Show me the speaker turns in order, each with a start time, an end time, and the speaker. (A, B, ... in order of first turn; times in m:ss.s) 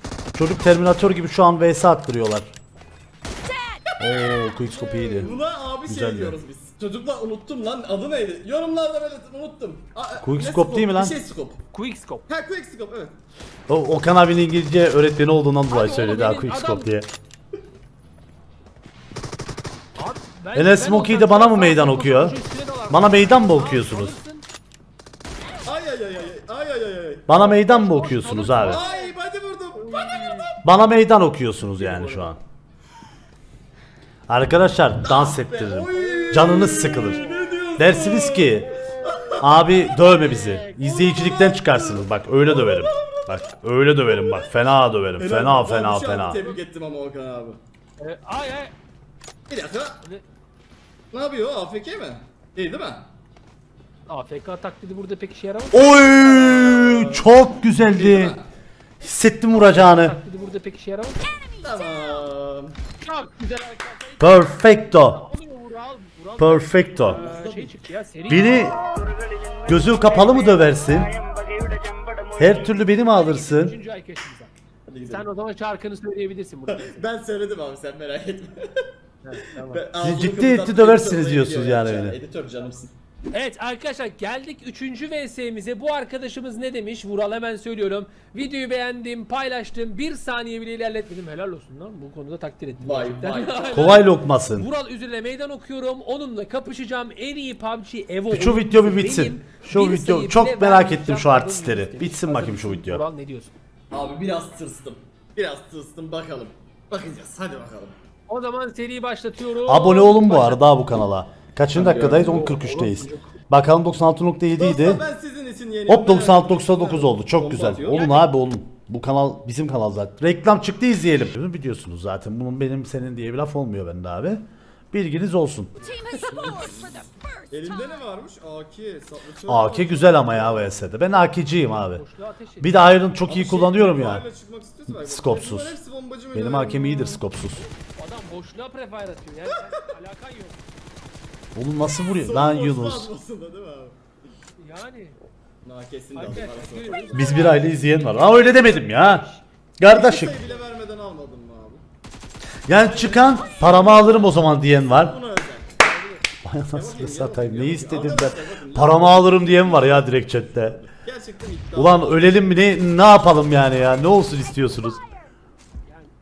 0:00.3-0:02.5 A
0:03.4-0:04.5 B
0:04.0-0:06.4 A
0:04.6-0:05.4 C
0:05.2-0:11.6 D
0:10.2-0:11.2 A
0:11.7-0:12.2 C
0:12.3-0:13.2 D
0:13.7-0:17.1 A
0:15.7-0:16.9 C
0:20.0-0:24.4 C
0:20.5-0:22.4 A
0:22.9-0:24.2 A
0:25.6-0:27.4 D
0:27.3-0:28.8 A
0:27.4-0:29.1 C
0:28.7-0:30.6 D
0:29.8-0:30.5 C
0:30.6-0:32.4 A
0:31.7-0:32.3 C
0:34.3-0:37.2 A
0:35.0-0:39.7 D
0:35.9-0:37.6 C
0:37.8-0:38.7 A
0:38.6-0:40.8 C
0:39.4-0:46.4 A
0:40.8-0:43.4 D
0:44.1-0:44.5 D
0:45.2-0:47.6 D
0:48.0-0:48.7 C
0:49.5-0:50.0 D
0:51.1-0:53.1 D
0:54.1-0:55.8 C
0:55.7-0:58.4 A
0:55.8-0:58.5 D
0:59.0-1:00.2 A
0:59.5-1:01.2 C
1:01.2-1:02.3 B
1:01.6-1:02.8 D
1:03.0-1:08.7 C
1:04.2-1:05.2 A
1:06.4-1:07.2 A
1:07.0-1:07.8 D
1:08.3-1:08.8 A
1:09.6-1:11.2 A
1:12.4-1:13.7 A
1:12.9-1:14.5 C
1:14.9-1:15.3 D
1:15.1-1:17.0 C
1:16.7-1:18.8 D
1:19.2-1:19.8 C
1:19.7-1:22.9 D
1:20.0-1:22.2 A
1:23.3-1:43.5 C
1:32.8-1:33.9 D
1:33.7-1:34.7 A
1:38.3-1:43.0 A
1:43.9-1:47.9 D
1:48.3-1:50.6 C
1:49.6-1:55.0 A
1:51.7-1:52.6 D
1:52.1-1:53.3 C
1:54.6-1:58.1 D
1:55.9-2:05.7 A
2:05.8-2:08.0 B
2:06.1-2:10.8 D
2:09.4-2:12.0 A
2:11.6-2:12.8 C
2:12.6-2:14.3 A
2:13.3-2:17.2 D
2:14.9-2:15.8 A
2:16.3-2:17.6 A
2:17.6-2:20.6 C
2:21.5-2:23.1 A
2:22.1-2:24.0 D
2:24.6-2:25.2 C
2:25.6-2:27.6 D
2:26.2-2:29.4 C
2:27.1-2:29.2 A
2:29.8-2:30.4 A
2:29.8-2:31.8 D
2:32.7-2:35.2 A
2:32.7-2:35.8 D
2:35.8-2:36.2 C
2:36.4-2:40.8 A
2:36.7-2:42.4 D
2:41.7-2:45.0 A
2:43.3-2:45.3 B
2:45.8-2:46.1 C